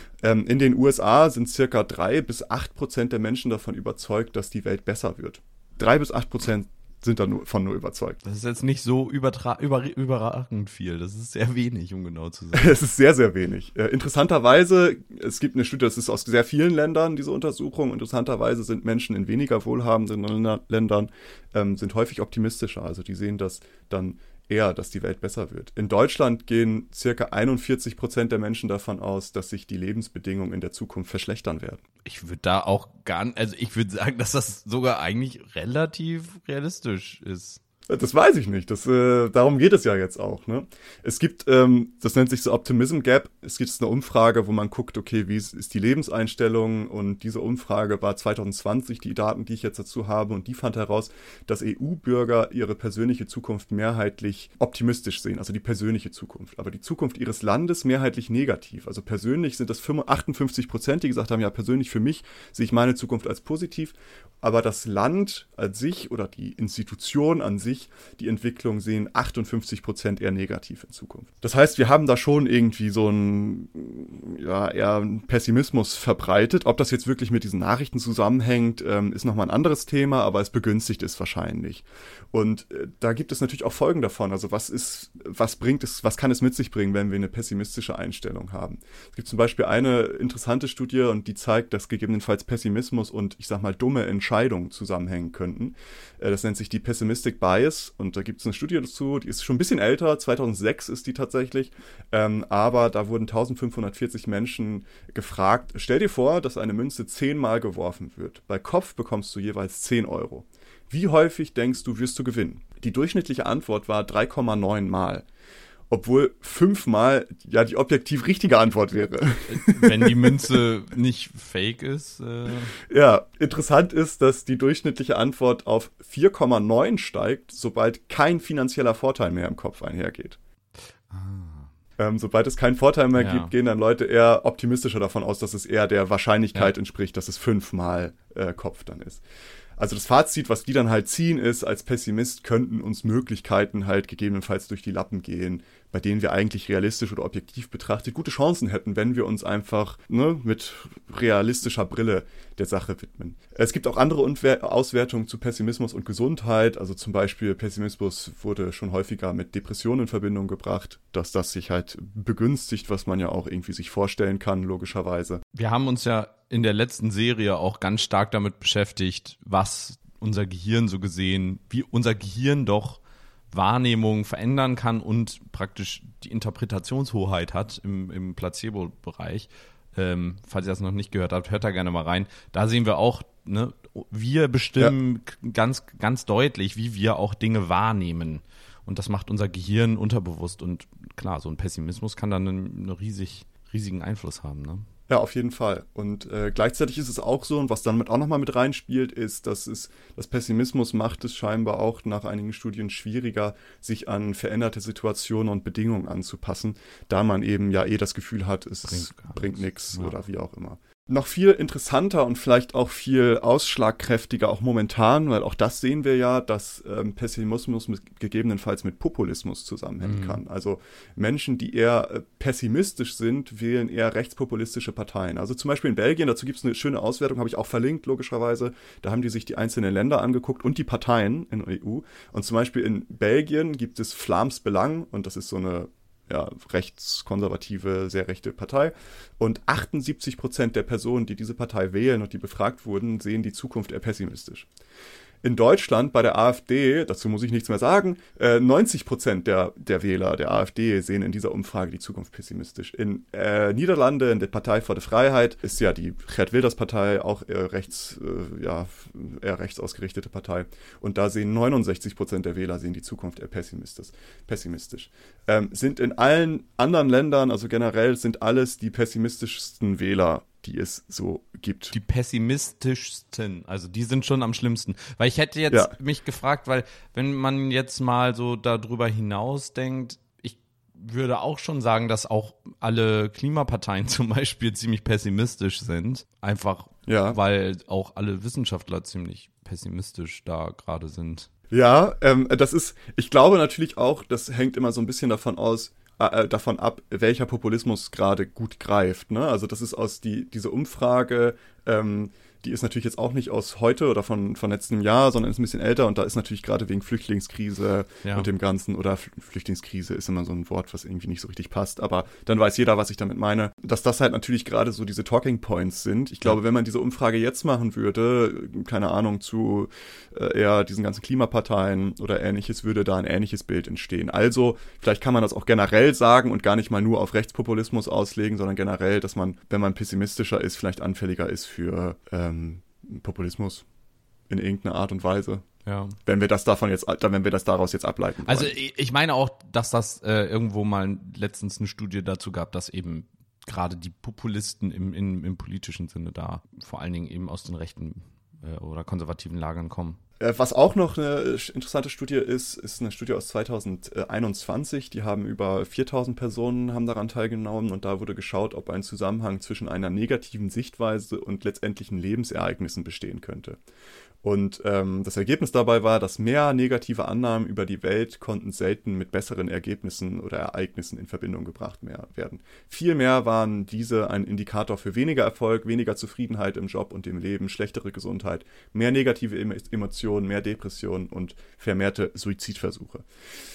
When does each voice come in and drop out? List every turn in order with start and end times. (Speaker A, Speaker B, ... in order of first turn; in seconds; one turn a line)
Speaker A: 0.2-8.2
Speaker B: 8.2-12.8
Speaker A: 12.5-31.8
Speaker B: 32.0-37.6
Speaker A: 37.9-115.2
Speaker A: 115.9-120.5
Speaker B: 119.5-122.7
Speaker A: 122.8-130.4
Speaker B: 131.1-131.7
Speaker A: 132.0-139.2
Speaker B: 133.1-133.5
Speaker A: 139.8-165.4
Speaker B: 165.5-173.0
Speaker B: 173.5-194.8
Speaker A: 195.1-244.7
Speaker B: 208.9-210.1
Speaker B: 220.0-220.4
Speaker A: 245.4-271.9
Speaker B: 271.9-291.5
Speaker A: 287.1-287.4
Speaker A: 291.7-333.8
Speaker A: 334.5-335.7
Speaker B: 335.9-336.2
Speaker A: 336.2-338.7
Speaker B: 338.4-350.2
Speaker A: 350.4-363.8
Speaker A: 364.4-383.2